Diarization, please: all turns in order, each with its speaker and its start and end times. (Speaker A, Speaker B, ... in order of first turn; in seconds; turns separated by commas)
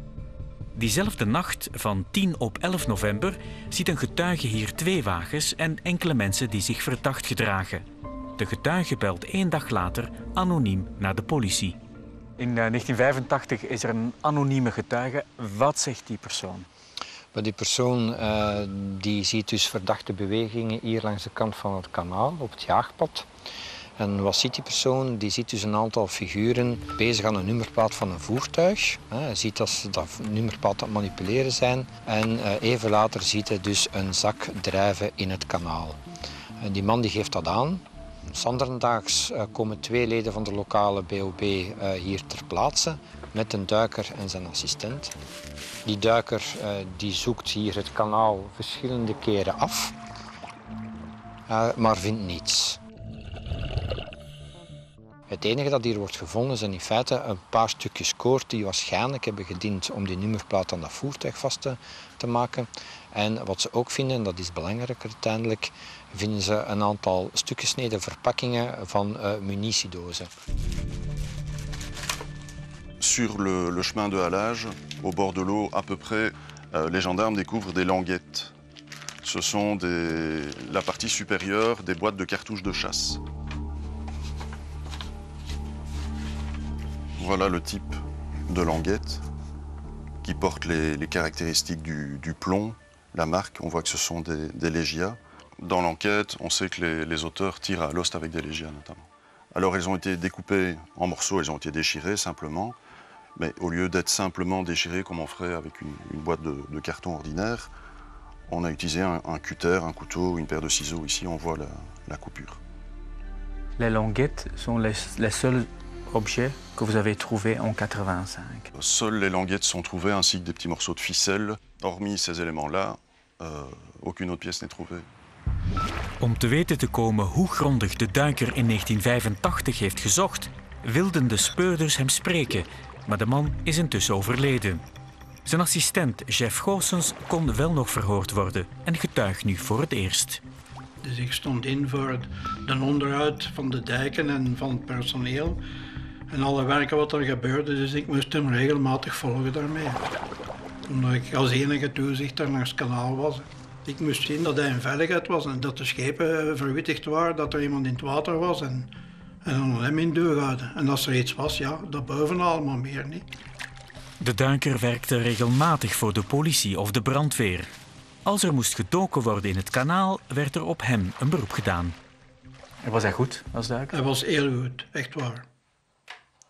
Speaker A: 0.8-7.8, Speaker A: 8.4-11.8, Speaker A: 12.4-16.7, Speaker B: 17.3-23.3, Speaker B: 24.0-36.0, Speaker B: 36.6-45.1, Speaker B: 45.9-50.0, Speaker B: 51.5-52.8, Speaker B: 55.3-70.3, Speaker C: 73.0-78.5, Speaker C: 79.2-83.2, Speaker C: 87.2-89.2, Speaker C: 90.2-102.8, Speaker C: 103.4-107.7, Speaker C: 108.5-112.6, Speaker A: 113.8-118.7, Speaker C: 118.8-125.1, Speaker A: 126.2-134.8, Speaker A: 135.5-140.4, Speaker D: 141.0-145.6, Speaker D: 146.3-150.0, Speaker D: 150.9-158.9, Speaker D: 159.4-163.3, Speaker A: 164.2-167.7, Speaker A: 168.2-172.0, Speaker A: 172.8-173.9, Speaker D: 173.9-175.4